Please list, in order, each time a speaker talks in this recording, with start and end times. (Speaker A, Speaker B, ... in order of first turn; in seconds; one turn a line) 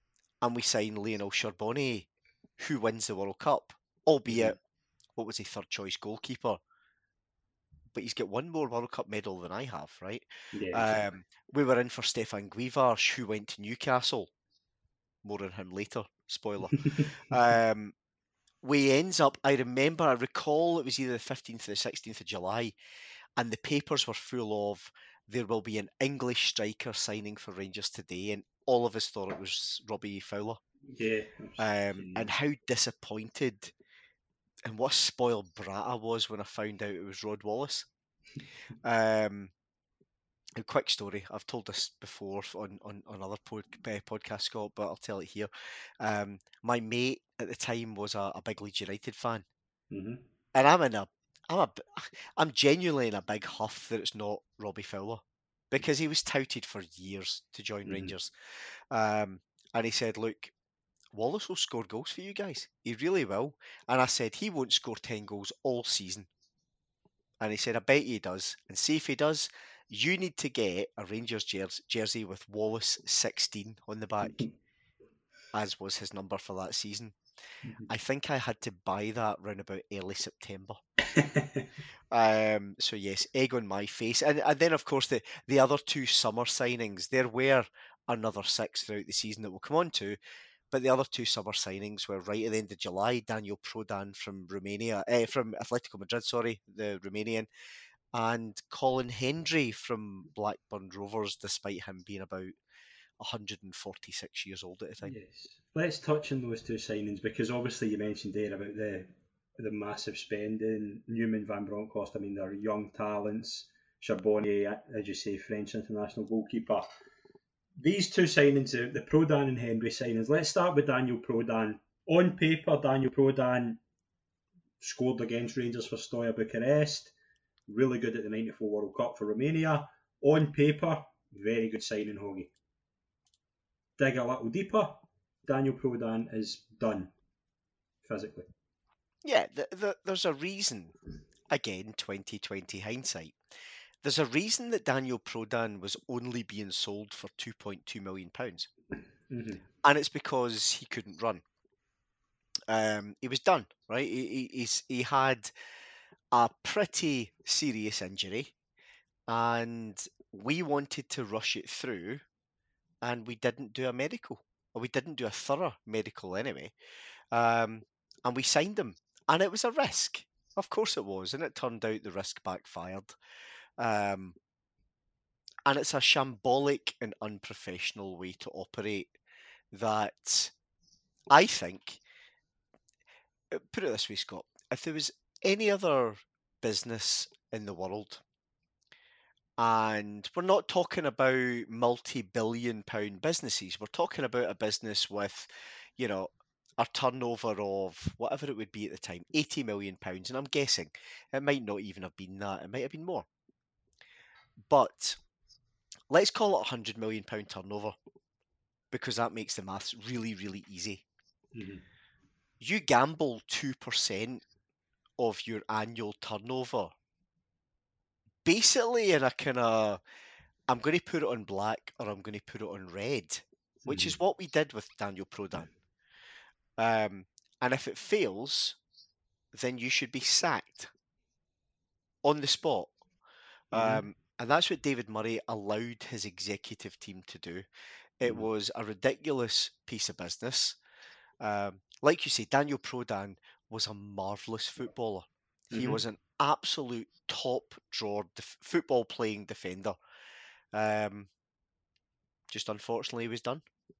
Speaker A: 0.4-2.1
Speaker A: 2.6-4.6
Speaker B: 4.3-4.6
Speaker A: 5.2-6.6
Speaker A: 7.9-14.3
Speaker B: 10.5-11.0
Speaker A: 15.2-17.9
Speaker A: 18.6-22.7
Speaker A: 23.4-30.6
Speaker B: 30.9-32.3
Speaker A: 31.6-33.7
Speaker A: 34.6-37.9
Speaker A: 38.8-39.5
Speaker A: 40.6-49.4
Speaker B: 49.9-50.2
Speaker A: 50.5-58.3
Speaker B: 57.9-58.1
Speaker A: 58.9-60.5
Speaker A: 61.1-66.3
Speaker A: 67.4-74.4
Speaker B: 74.2-74.5
Speaker A: 75.5-77.2
Speaker A: 77.9-80.8
Speaker B: 81.1-81.7
Speaker A: 82.1-90.2
Speaker A: 90.7-97.5
Speaker A: 98.1-102.5
Speaker A: 103.2-105.1
Speaker B: 105.0-116.8
Speaker B: 117.8-123.8
Speaker B: 124.8-127.1
Speaker B: 127.7-132.5
Speaker B: 134.0-137.1
Speaker B: 138.0-138.5
Speaker A: 139.2-140.9
Speaker A: 141.5-143.3
Speaker A: 144.0-148.7
Speaker B: 149.3-149.6
Speaker A: 149.8-151.4
Speaker A: 152.7-155.5
Speaker A: 156.3-158.5
Speaker A: 159.3-162.2
Speaker A: 163.0-166.7
Speaker A: 167.3-173.1
Speaker A: 173.8-174.3
Speaker A: 175.7-179.1
Speaker A: 179.7-180.5
Speaker A: 181.3-182.0
Speaker A: 183.5-188.2
Speaker A: 189.6-203.3
Speaker A: 204.7-205.2
Speaker A: 206.1-207.9
Speaker A: 208.9-211.0
Speaker B: 211.5-211.8
Speaker A: 212.6-214.4
Speaker A: 215.2-216.9
Speaker A: 218.4-220.0
Speaker A: 220.7-225.7
Speaker B: 223.8-224.2
Speaker A: 226.8-228.8
Speaker A: 229.5-230.9
Speaker A: 232.2-232.9
Speaker A: 233.7-237.6
Speaker B: 233.7-234.0
Speaker A: 238.2-240.8
Speaker A: 241.4-249.9
Speaker B: 245.7-246.0
Speaker A: 250.7-251.3
Speaker A: 252.5-253.6